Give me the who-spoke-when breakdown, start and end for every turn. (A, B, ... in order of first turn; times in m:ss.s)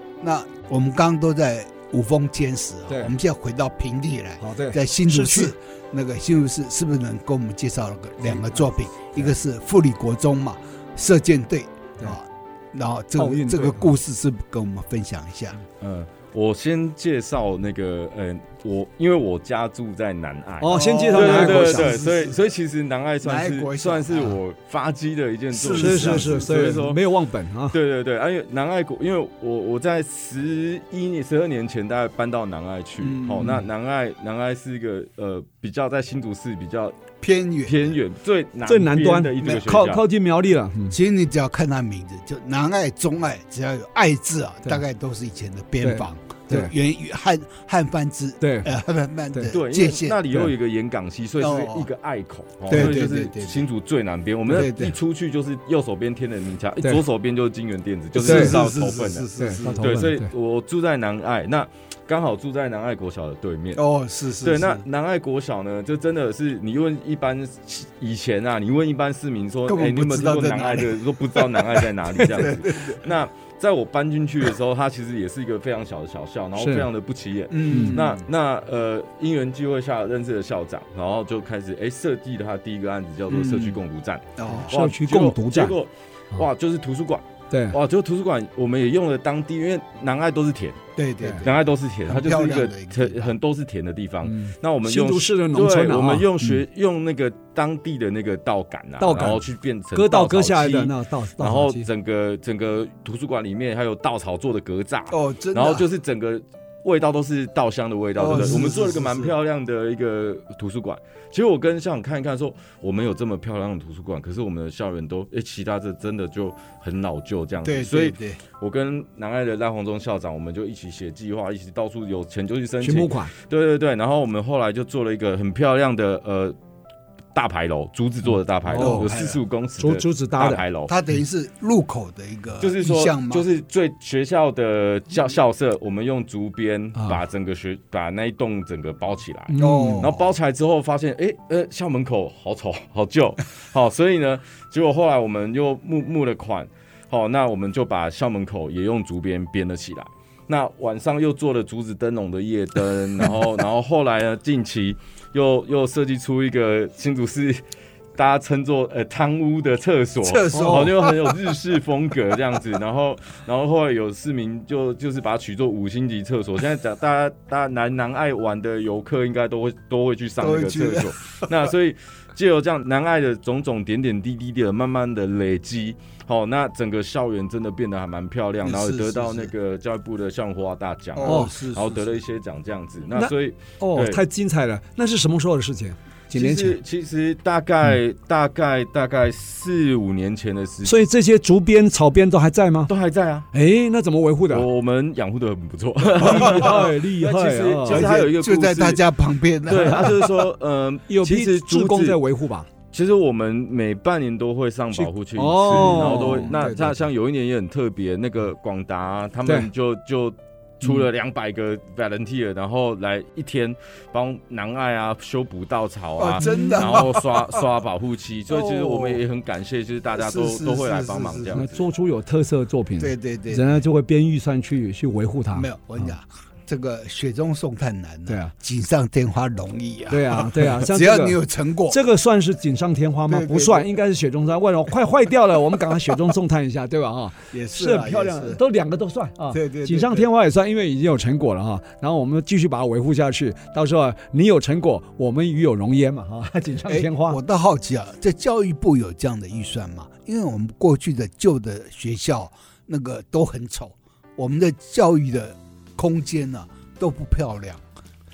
0:00.2-0:15.6 A
0:04.4-0:05.5 B
0:13.2-0:13.9 B
0:15.8-0:27.0 C
0:20.6-0:21.9 B
0:20.7-0:22.4 A
0:23.2-0:24.4 A
0:25.5-0:26.6 A
0:25.6-0:27.8 B
0:27.7-0:37.1 C
0:33.0-0:33.6 A
0:37.2-0:37.9 A
0:37.6-0:40.0 C
0:38.6-0:41.0 B
0:40.9-0:50.2 A
0:45.8-0:46.7 B
0:48.4-0:48.7 B
0:49.5-0:59.3 C
0:51.4-0:51.9 A
0:52.7-0:53.6 A
0:54.5-0:55.0 A
0:58.1-1:00.0 A
0:58.2-0:58.6 B
0:59.4-1:00.3 B
0:59.8-1:03.8 C
1:03.7-1:04.8 A
1:04.4-1:30.8 C
1:09.7-1:13.0 A
1:16.6-1:16.9 B
1:17.5-1:18.2 A
1:17.7-1:18.0 B
1:23.3-1:23.8 A
1:24.4-1:24.7 A
1:24.7-1:25.7 B
1:27.5-1:27.8 B
1:31.0-1:33.3 A
1:31.4-2:06.6 C
1:34.2-1:36.6 B
1:39.0-1:39.4 B
1:39.9-1:41.8 B
1:45.1-1:45.8 A
1:48.2-1:49.3 A
1:57.6-1:58.4 A
2:02.8-2:03.3 B
2:07.3-2:11.0 C
2:08.7-2:09.1 B
2:08.7-2:09.4 A
2:09.8-2:10.6 B
2:10.9-2:13.5 A
2:12.6-2:37.6 C
2:19.5-2:20.1 B
2:19.6-2:20.2 A
2:38.2-3:04.2 C
2:40.2-2:41.3 A
2:40.5-2:40.9 B
2:50.4-2:51.5 A
2:58.6-2:59.5 A
3:01.1-3:02.1 A
3:01.2-3:01.5 B
3:03.1-3:06.8 B
3:06.3-3:11.0 C
3:10.8-3:12.9 B
3:12.9-3:13.5 C
3:13.5-3:14.6 B
3:14.5-3:19.0 C
3:16.2-3:18.1 B
3:16.3-3:16.8 A
3:17.9-3:20.4 A
3:19.6-3:22.2 C
3:19.8-3:20.2 B
3:21.1-3:22.7 B
3:22.9-3:41.8 C
3:24.9-3:26.8 B
3:25.7-3:27.0 A
3:36.2-3:37.6 A
3:36.4-3:37.0 B
3:38.5-3:39.2 A
3:40.1-3:41.6 A
3:41.5-3:46.1 B
3:43.0-3:43.8 A
3:45.5-3:52.0 A
3:48.3-3:48.5 B
3:50.1-4:07.4 B
3:53.3-3:53.9 A
3:57.5-3:58.6 A
3:59.5-4:00.3 A
4:06.8-4:17.8 A